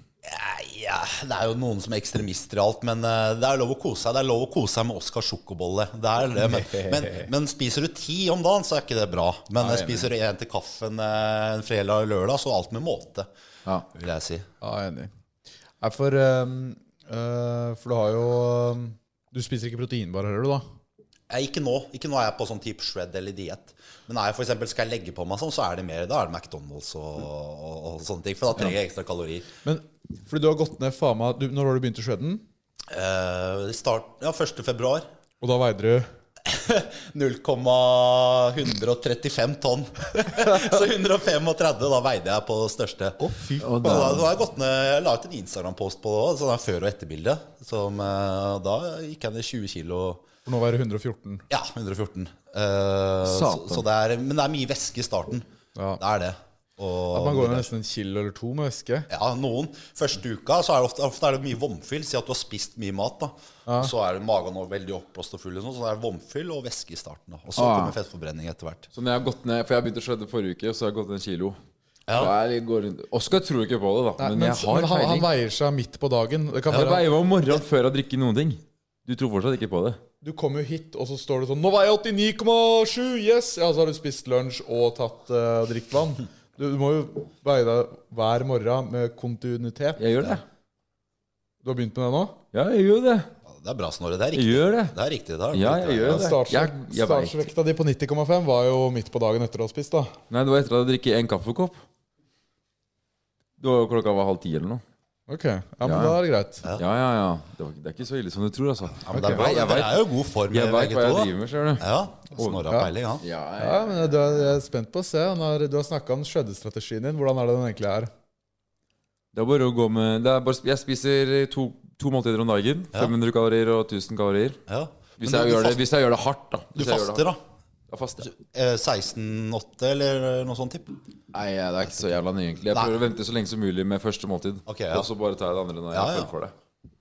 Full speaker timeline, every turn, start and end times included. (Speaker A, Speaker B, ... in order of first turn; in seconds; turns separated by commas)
Speaker A: 0.2-13.3, Speaker B: 6.5-7.3, Speaker B: 9.6-10.1, Speaker A: 13.9-14.5, Speaker B: 14.6-15.1, Speaker B: 15.8-20.6, Speaker A: 21.3-29.5, Speaker B: 29.6-32.4, Speaker A: 32.9-35.0, Speaker B: 35.4-36.1, Speaker A: 36.4-43.2, Speaker B: 43.2-44.0, Speaker C: 43.6-44.3, Speaker A: 43.8-50.3, Speaker B: 50.5-51.5, Speaker A: 51.5-55.5, Speaker C: 53.3-53.8, Speaker A: 56.0-57.7, Speaker B: 57.1-59.1, Speaker A: 59.1-68.9, Speaker B: 63.7-63.9, Speaker C: 67.6-68.0, Speaker C: 68.9-71.6, Speaker A: 72.1-72.3, Speaker C: 72.1-75.3, Speaker B: 74.2-77.0, Speaker C: 76.7-80.0, Speaker B: 80.2-90.0, Speaker C: 90.0-90.4, Speaker B: 91.6-92.4, Speaker C: 92.5-93.3, Speaker A: 93.5-96.3, Speaker C: 94.3-95.0, Speaker C: 95.5-97.5, Speaker B: 96.1-100.2, Speaker C: 100.3-101.8, Speaker C: 103.6-104.8, Speaker B: 105.3-106.7, Speaker C: 105.8-106.2, Speaker C: 106.8-112.6, Speaker A: 109.0-113.2, Speaker B: 109.1-109.4, Speaker C: 113.2-114.3, Speaker B: 113.6-118.1, Speaker C: 119.3-124.6, Speaker A: 124.7-125.8, Speaker C: 125.2-127.3, Speaker A: 126.8-127.4, Speaker C: 127.9-128.3, Speaker A: 128.2-130.9, Speaker C: 131.3-136.5, Speaker A: 134.7-135.1, Speaker A: 135.9-136.3